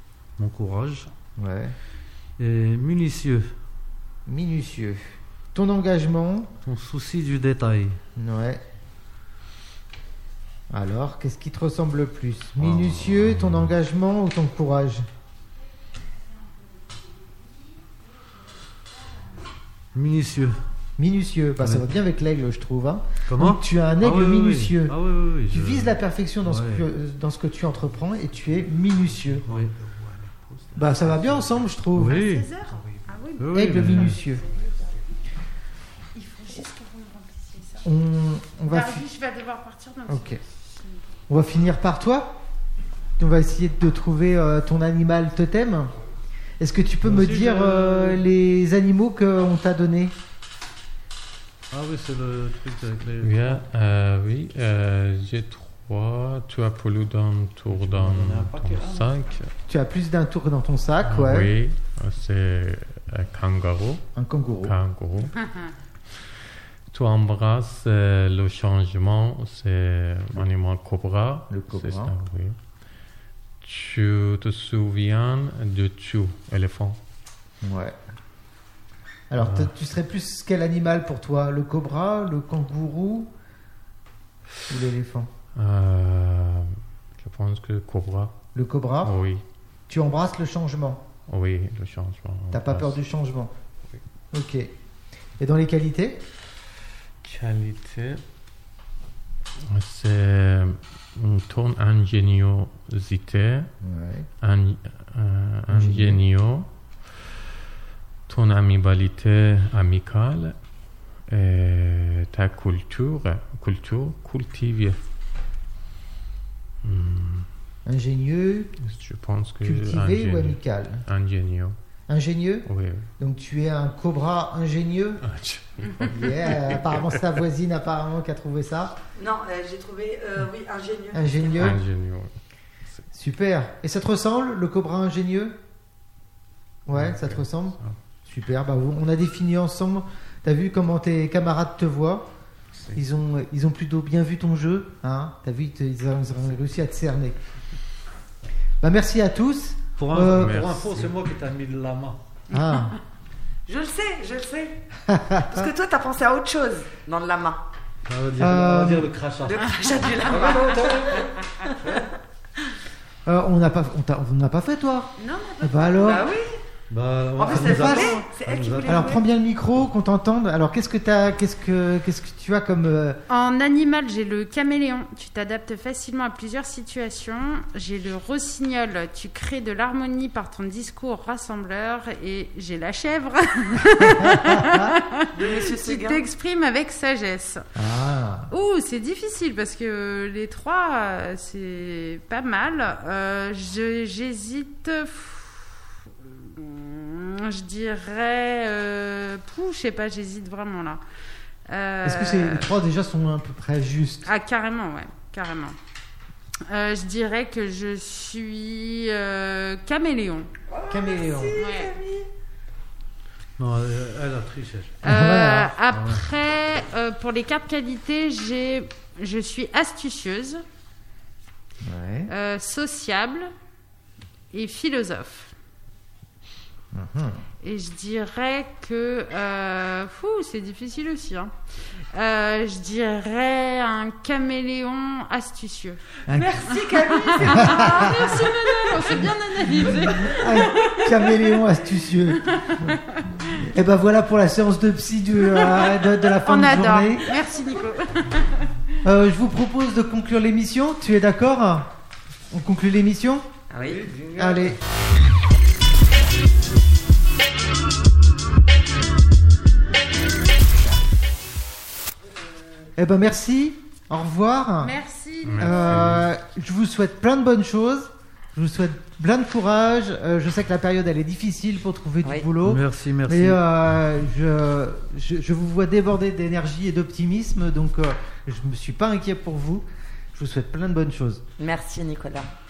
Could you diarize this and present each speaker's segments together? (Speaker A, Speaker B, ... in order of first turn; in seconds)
Speaker A: 0.4-1.1, 2.4-3.5, 6.7-8.0, 19.9-20.6, 23.3-26.9, 29.5-31.4, 31.9-32.5, 33.4-34.2, 47.0-48.2, 51.7-53.6, 57.7-59.1, 150.0-152.2, 158.1-162.1, 166.9-169.1, 213.6-215.0, 215.9-216.2, 253.8-254.8, 272.6-273.6
Speaker B: 1.4-1.8, 4.3-6.5, 8.2-8.6, 10.7-15.1, 21.0-29.5, 30.7-32.2, 33.5-34.4, 37.8-39.0, 40.1-40.4, 41.3-42.4, 43.2-45.9, 46.6-50.2, 59.7-61.5, 64.2-64.8, 71.5-72.1, 77.6-78.0, 79.3-83.3, 84.7-85.3, 88.5-89.1, 89.9-91.0, 92.5-93.5, 94.3-94.7, 95.4-96.2, 103.8-104.3, 105.7-106.2, 117.9-118.8, 119.6-121.0, 122.1-122.7, 123.2-125.2, 126.0-128.9, 131.1-131.8, 133.1-135.6, 136.9-142.3, 142.9-147.4, 148.8-150.9, 152.5-153.0, 155.1-155.7, 158.4-159.1, 163.3-166.3, 167.4-168.2, 168.9-173.2, 183.9-185.0, 187.8-188.5, 202.0-204.3, 210.9-211.6, 215.1-215.7, 221.8-222.3, 226.9-227.4, 236.3-236.6, 237.4-238.5, 239.6-242.9, 243.5-247.4, 249.0-251.9, 252.5-253.5, 254.4-254.8, 263.0-265.0, 265.6-281.4
Speaker C: 32.1-34.9, 36.1-37.9, 38.7-41.1, 165.2-166.2, 173.3-187.7, 188.5-201.0, 201.7-202.7, 204.2-205.8, 206.7-210.5, 211.6-211.9, 215.0-220.6, 222.3-223.5, 224.5-225.5, 227.6-231.5, 232.1-236.0, 236.6-241.6, 242.3-243.6, 245.5-248.8, 264.8-266.1
Speaker D: 53.2-59.5, 61.1-64.0, 64.6-65.3, 66.9-72.6, 73.6-77.0, 79.4-79.7, 85.5-88.3, 89.0-89.4, 91.3-93.0, 97.2-98.2, 99.7-103.7, 104.4-106.7, 108.3-110.6, 111.3-115.0, 116.8-117.5, 118.8-121.8, 122.7-123.1, 125.2-127.2, 131.6-132.3, 136.9-138.0, 150.2-151.1, 265.4-266.3
Speaker E: 129.2-131.7, 153.7-154.8, 155.5-157.6, 159.4-162.0, 166.0-166.6, 167.4-169.2, 185.3-186.3, 210.7-212.3, 236.3-239.1, 253.7-254.1, 281.6-282.5